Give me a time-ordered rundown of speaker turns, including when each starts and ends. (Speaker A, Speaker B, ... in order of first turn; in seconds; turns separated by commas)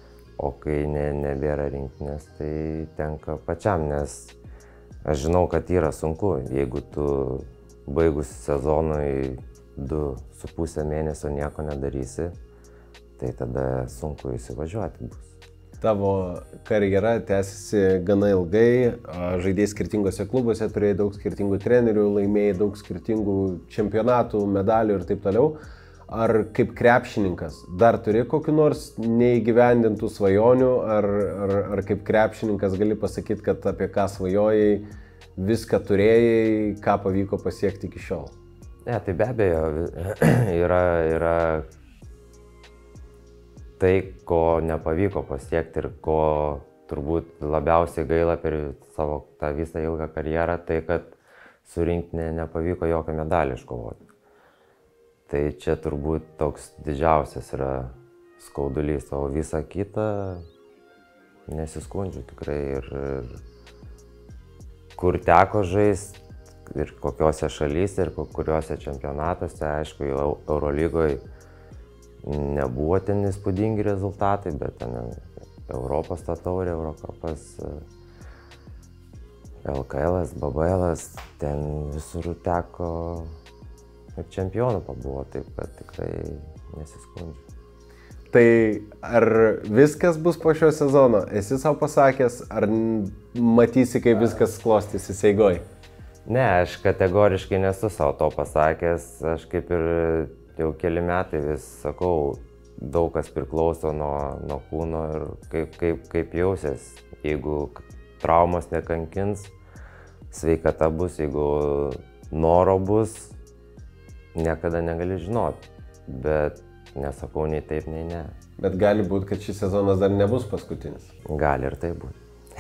Speaker A: 0.4-4.3, Speaker A: 5.0-12.3, Speaker A: 13.2-15.3, Speaker B: 15.8-25.6, Speaker B: 26.1-34.8, Speaker B: 35.4-38.3, Speaker A: 38.9-41.7, Speaker A: 43.8-54.0, Speaker A: 55.3-60.5, Speaker A: 61.5-63.4, Speaker A: 65.0-71.2, Speaker A: 72.2-77.8, Speaker A: 79.7-83.3, Speaker A: 84.2-87.4, Speaker B: 88.3-95.6, Speaker A: 96.3-109.5, Speaker A: 110.3-113.3, Speaker A: 114.3-118.3, Speaker B: 118.6-121.1, Speaker A: 121.3-122.2